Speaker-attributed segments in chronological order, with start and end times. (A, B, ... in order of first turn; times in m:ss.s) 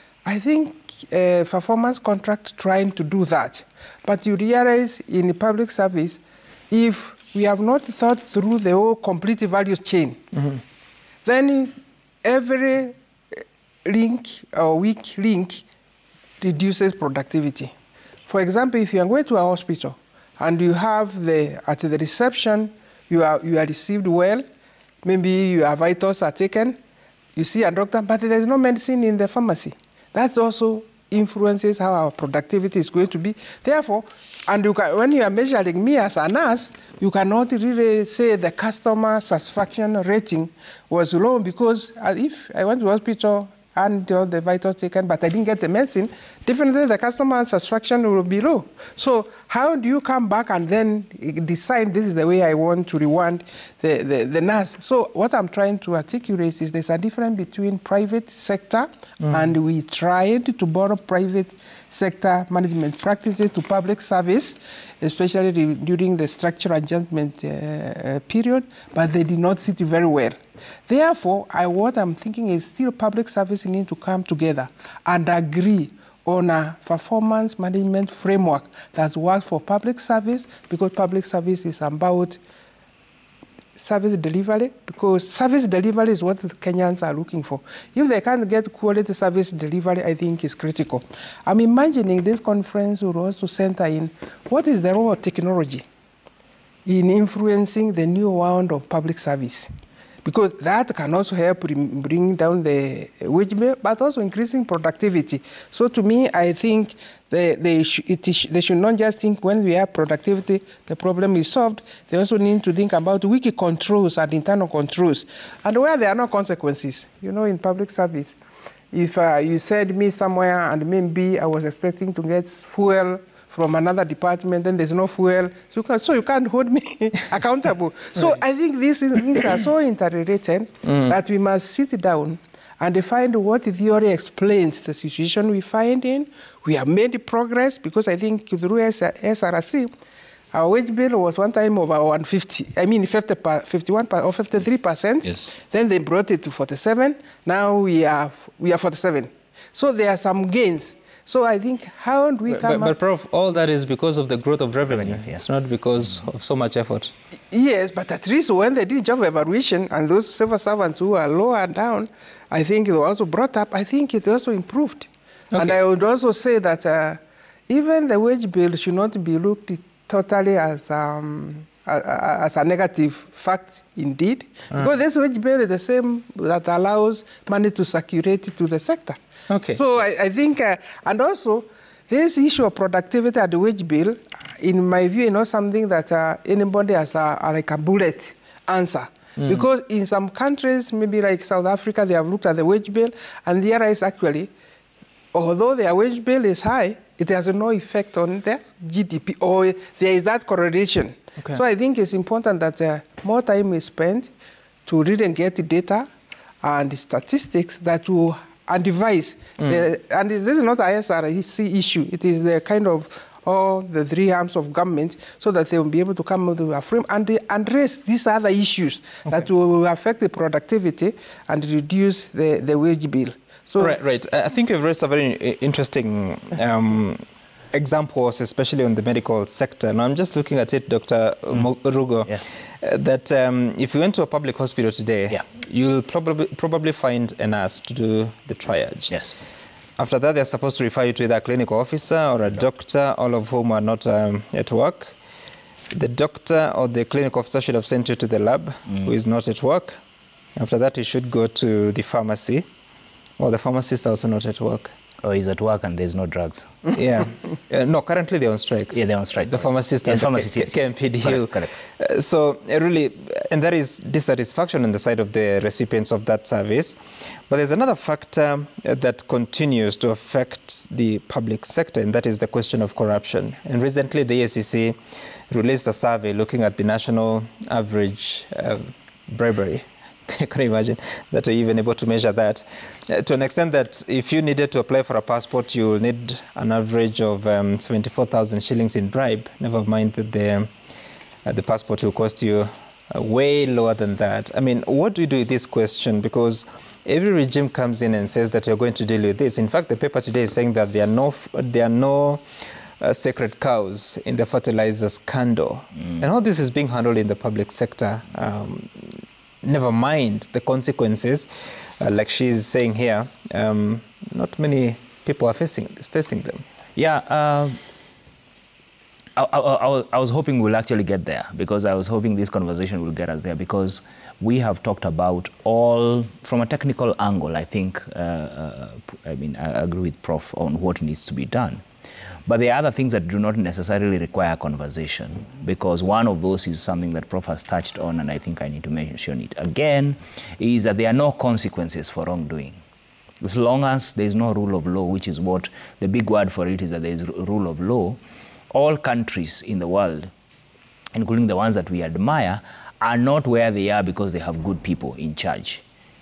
0:00.2-0:10.2 A
0:11.2-0:11.7 A
0:12.2-0:13.0 A
0:13.8-0:15.6 A
0:16.4-0:17.7 A
0:18.3-0:24.4 A
0:25.0-0:26.8 A
0:27.3-1:10.4 A
1:10.9-1:22.4 A
1:23.8-1:35.8 A
1:36.8-1:39.7 A
1:40.2-1:58.3 A
1:58.9-2:19.9 A
2:20.5-2:33.0 A
2:32.5-2:37.1 B
2:35.1-2:35.4 C
2:37.5-2:59.2 A
2:59.5-2:59.8 B
2:59.7-3:14.5 A
3:09.4-3:09.6 B
3:15.3-3:24.3 A
3:24.8-3:26.1 A
3:26.6-3:44.0 A
3:43.8-3:59.1 B
4:00.0-4:05.1 B
4:05.9-4:10.0 B
4:10.6-4:12.6 B
4:13.4-4:14.9 B
4:15.2-4:16.7 C
4:16.9-4:27.0 B
4:18.9-4:21.7 C
4:27.5-4:35.0 B
4:35.5-4:50.7 B
4:51.4-5:02.4 B
5:03.0-5:11.5 B
5:12.0-5:16.6 B
5:17.0-5:17.8 C
5:19.4-5:31.8 C
5:32.5-5:42.8 C
5:43.4-5:48.2 C
5:48.7-5:50.3 C
5:51.1-5:55.8 C